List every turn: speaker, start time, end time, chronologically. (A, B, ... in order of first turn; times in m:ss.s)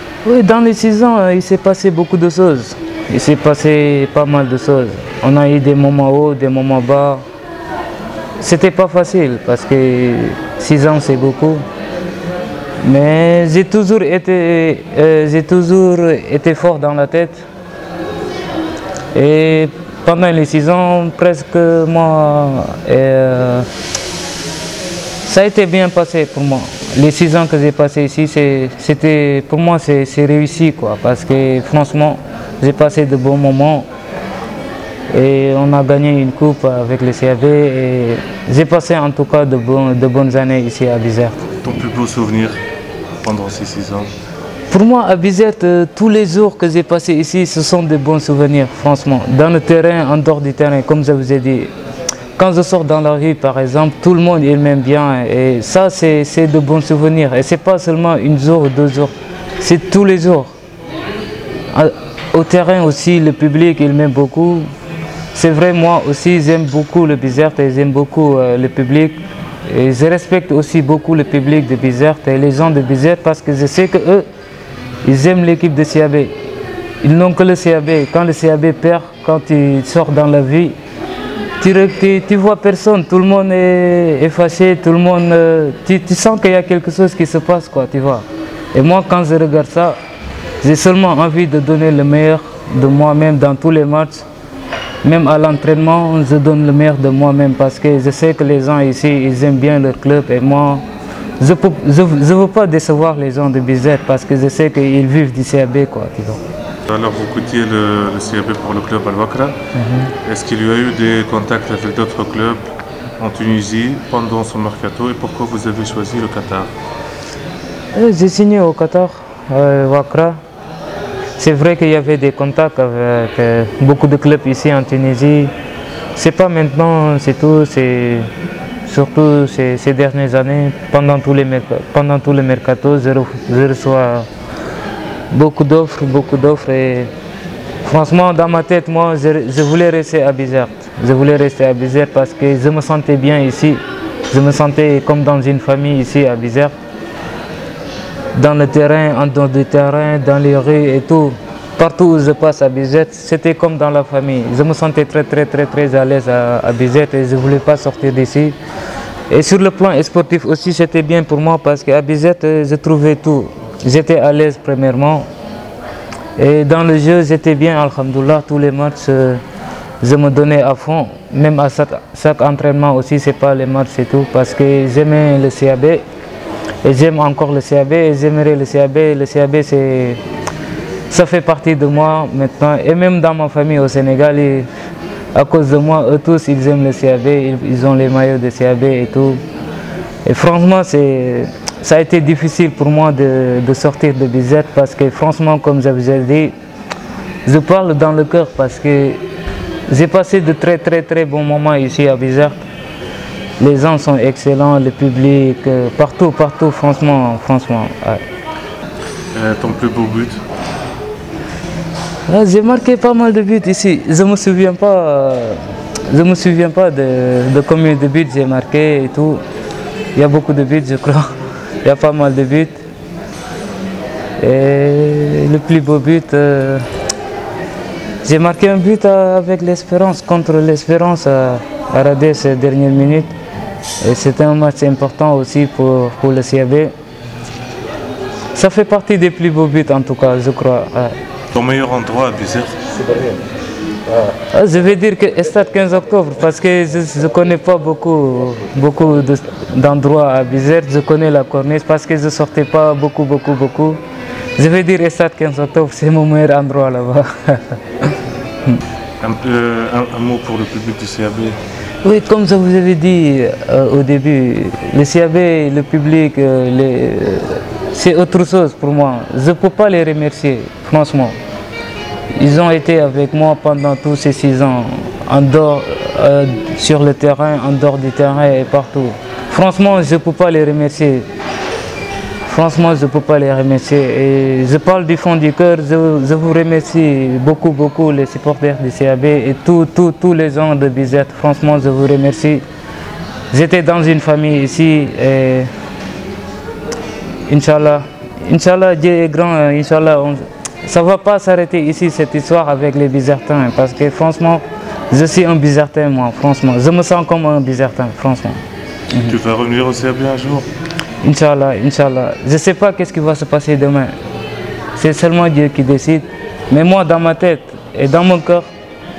0:00.2-0:07.2 A
0:08.4-0:11.7 A
0:12.8-0:17.4 A
0:19.1-0:23.7 A
0:25.2-0:33.9 A
0:35.1-0:41.5 A
0:41.6-0:42.6 B
0:43.2-0:44.1 B
0:44.7-0:51.7 A
0:52.4-1:00.6 A
1:01.7-1:04.7 A
1:05.3-1:14.3 A
1:15.0-1:16.4 A
1:17.0-1:20.8 A
1:21.6-1:30.0 A
1:30.6-1:34.3 A
1:35.0-1:40.8 A
1:41.4-1:46.4 A
1:46.9-1:49.6 B
1:49.8-1:50.1 A
1:50.2-1:52.6 B
1:53.2-1:56.7 B
1:57.9-2:00.4 A
2:01.4-2:05.5 A
2:06.1-2:08.3 A
2:08.9-2:14.3 A
2:15.3-2:17.1 A
2:17.8-2:26.7 A
2:28.3-2:38.6 A
2:39.3-2:45.3 A
2:46.4-2:49.4 A
2:50.0-2:56.0 A
2:56.8-3:00.2 A
3:01.1-3:04.7 A
3:05.3-3:09.4 A
3:10.2-3:16.6 A
3:17.4-3:19.2 A
3:19.9-3:22.6 A
3:23.6-3:28.2 A
3:29.3-3:30.4 B
3:32.3-3:39.4 A
3:40.1-3:42.8 A
3:44.4-3:46.9 A
3:48.2-3:53.3 A
3:54.0-3:56.9 A
3:58.5-4:01.2 A
4:01.5-4:03.4 B
4:04.5-4:14.0 A
4:14.6-4:18.1 A
4:19.2-4:21.6 B
4:22.0-4:31.4 A
4:32.3-4:41.3 A
4:42.4-4:52.6 A
4:53.5-4:55.7 A
4:57.5-5:08.6 A
5:09.2-5:10.7 B
5:11.2-5:14.1 A
5:15.0-5:18.7 A